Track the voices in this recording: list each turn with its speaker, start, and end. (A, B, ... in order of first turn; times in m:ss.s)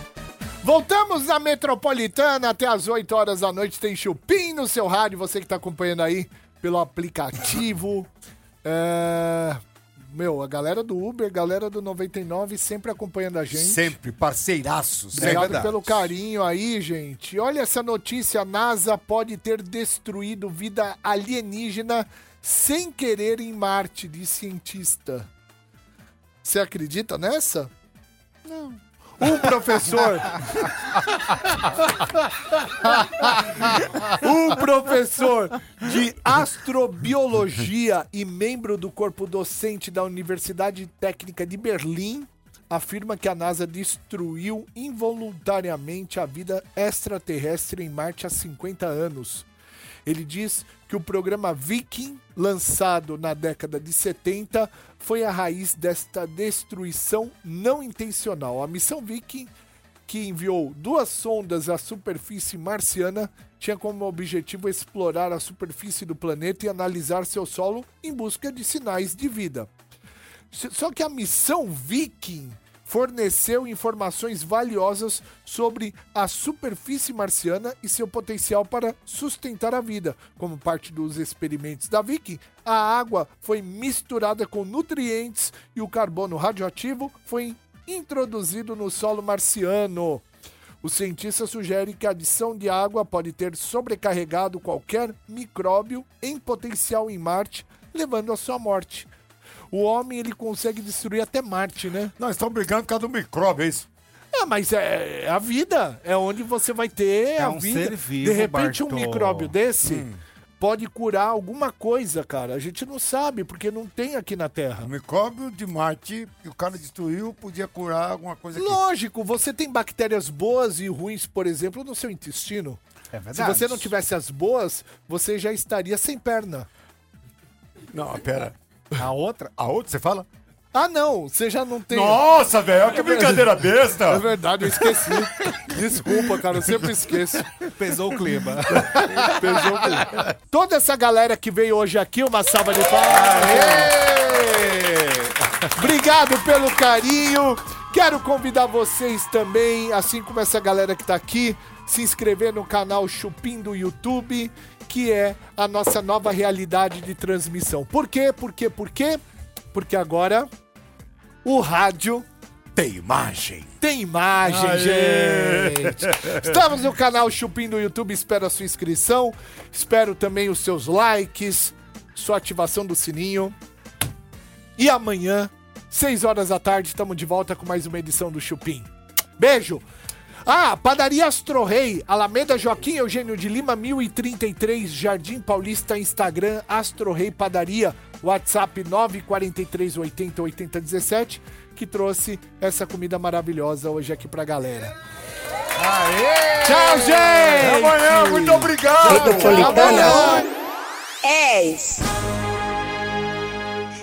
0:00.6-0:08.1 A
0:08.6-0:13.9 A
0:13.5-0:15.9 B
0:15.1-0:15.8 C
0:15.1-0:25.3 A
0:26.4-0:27.7 A
0:28.5-0:28.8 B
0:29.2-0:30.7 A
0:32.8-0:49.5 A
0:50.1-0:59.5 A
1:00.1-1:09.7 A
1:10.5-1:30.2 A
1:30.8-1:39.1 A
1:39.7-1:42.1 A
1:42.2-1:43.9 B
1:44.3-1:50.1 A
1:47.4-1:49.6 C
1:49.8-1:50.2 B
1:50.6-1:54.9 A
1:54.8-1:58.8 B
1:58.5-2:02.8 A
2:03.1-2:03.9 C
2:03.3-2:06.7 A
2:07.9-2:09.0 B
2:09.0-2:09.5 C
2:09.6-2:10.3 B
2:10.7-2:12.2 A
2:11.9-2:17.4 B
2:12.9-2:17.5 A
2:17.7-2:20.0 C
2:18.7-2:19.5 B
2:19.1-2:24.0 A
2:23.1-2:25.5 C
2:25.8-2:39.2 A
2:39.7-2:40.5 A
2:41.4-2:42.2 A
2:42.8-2:43.8 B
2:43.8-2:53.6 A
2:44.4-2:46.6 B
2:54.8-2:59.8 A
3:00.4-3:14.9 A
3:15.8-3:20.5 B
3:16.6-3:20.5 A
3:19.1-3:20.5 D
3:21.2-3:22.1 D